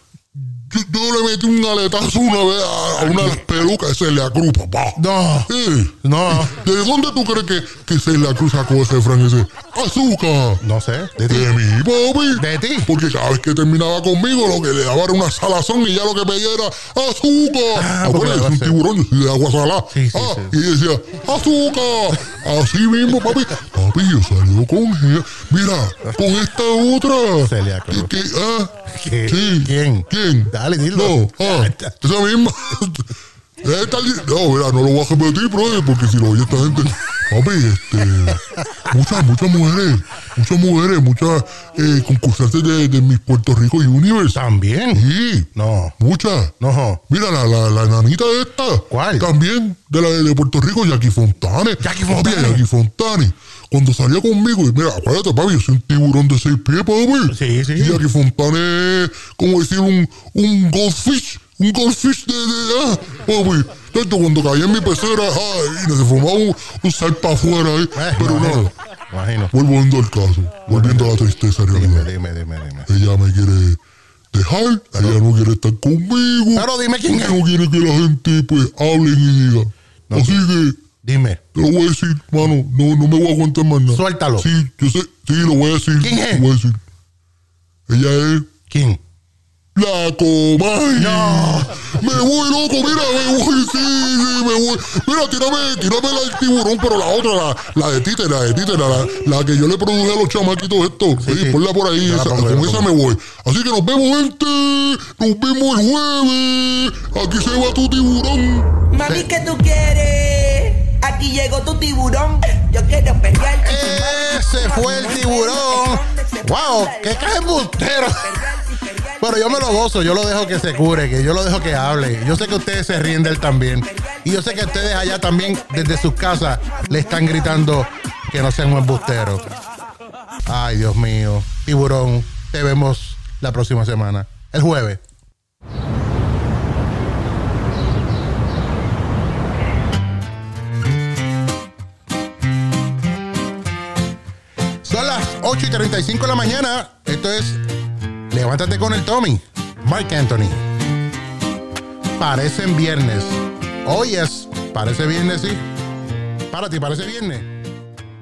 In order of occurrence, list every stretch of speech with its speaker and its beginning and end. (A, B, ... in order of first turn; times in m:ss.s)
0:00.3-0:10.6 A
0:05.0-0:06.5 B
0:10.6-0:11.5 B
0:11.2-0:28.7 A
0:12.3-0:12.9 B
0:17.7-0:18.8 B
0:19.9-0:20.6 B
0:27.4-0:28.1 B
0:28.9-0:31.9 B
0:29.2-0:44.4 A
0:44.3-0:45.9 B
0:44.9-0:46.6 A
0:46.6-0:47.0 B
0:47.1-1:08.7 A
0:48.9-0:49.3 B
0:51.8-0:52.6 B
0:57.3-0:58.0 B
1:07.9-1:09.5 B
1:09.5-1:12.1 A
1:10.7-1:11.2 B
1:11.7-1:12.9 B
1:12.9-1:13.8 A
1:14.3-1:20.8 A
1:16.5-1:17.4 B
1:20.1-1:20.5 B
1:21.0-1:21.4 B
1:21.5-1:26.8 A
1:23.9-1:24.5 B
1:26.0-1:26.5 B
1:27.9-1:28.5 A
1:28.7-1:29.0 B
1:29.7-1:48.7 A
1:30.9-1:32.0 B
1:41.2-1:42.9 B
1:48.9-1:56.9 C
1:49.0-1:49.4 B
1:53.6-2:09.5 B
1:58.4-1:59.1 C
2:10.4-2:15.0 B
2:24.8-2:27.6 B
2:28.3-2:30.6 B
2:32.2-2:35.6 B
2:36.5-2:37.6 B